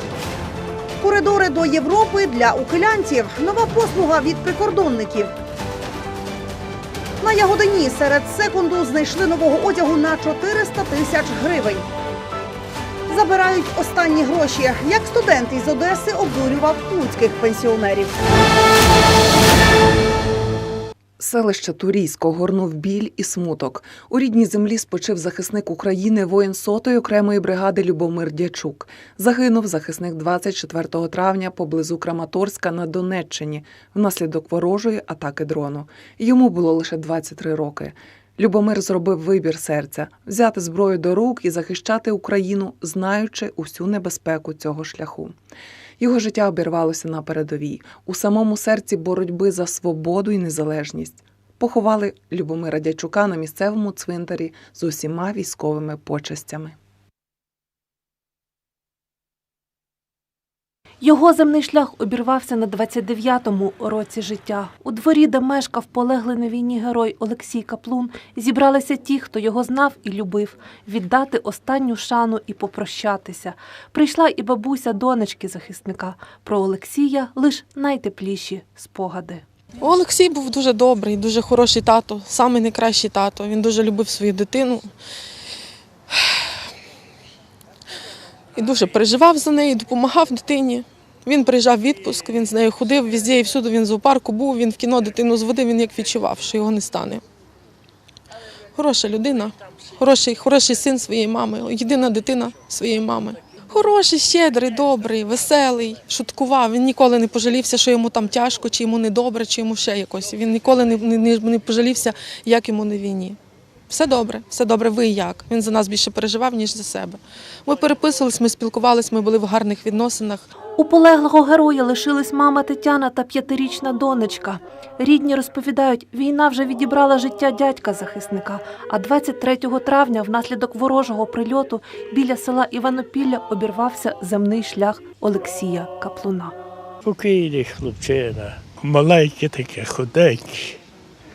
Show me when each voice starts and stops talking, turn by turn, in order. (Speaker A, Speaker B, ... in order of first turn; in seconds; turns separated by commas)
Speaker A: 1.0-5.3, Speaker A: 7.2-11.8, Speaker A: 13.1-18.2, Speaker B: 21.2-45.4, Speaker B: 46.0-56.8, Speaker C: 61.0-79.4, Speaker D: 79.8-84.9, Speaker D: 88.5-97.2, Speaker D: 98.8-113.4, Speaker D: 113.9-120.5, Speaker C: 120.8-136.6, Speaker E: 137.0-140.8